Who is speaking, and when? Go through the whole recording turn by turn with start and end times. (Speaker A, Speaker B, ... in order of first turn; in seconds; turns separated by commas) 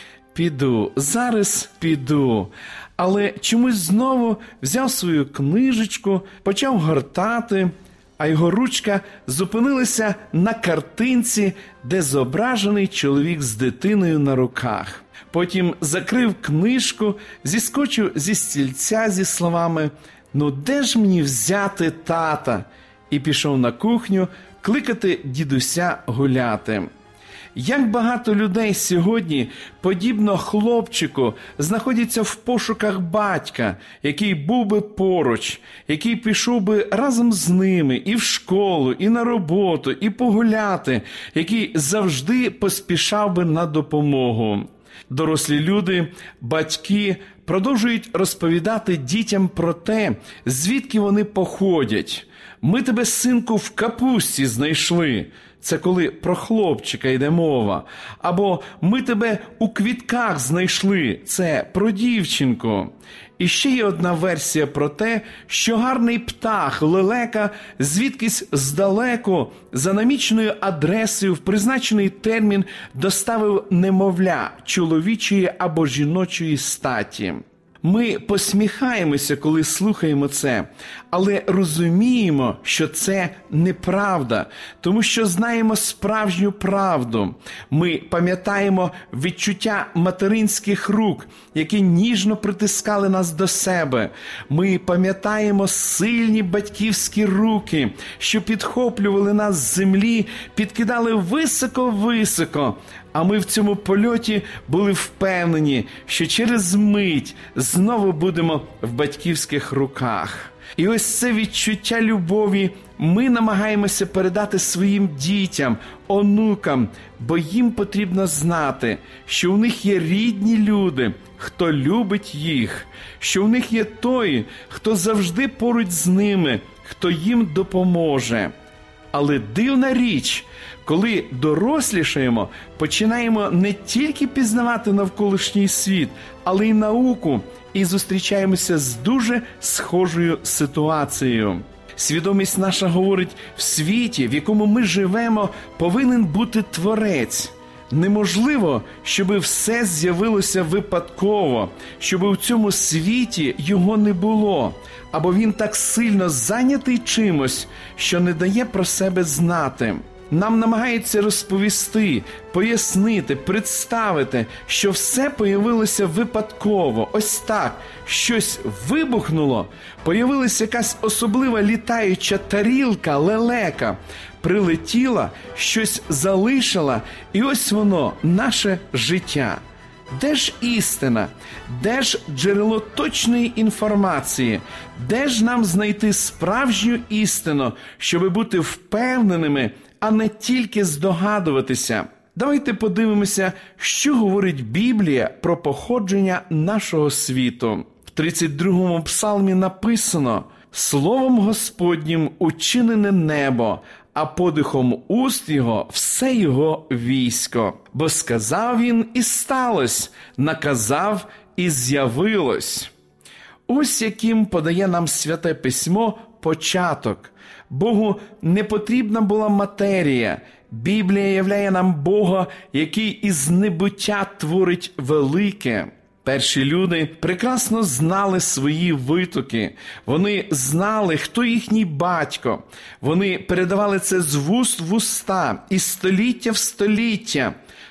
Speaker A: 0.3-26.9, Speaker A: 27.5-128.5, Speaker A: 129.1-179.6, Speaker A: 180.1-212.9, Speaker A: 213.7-237.5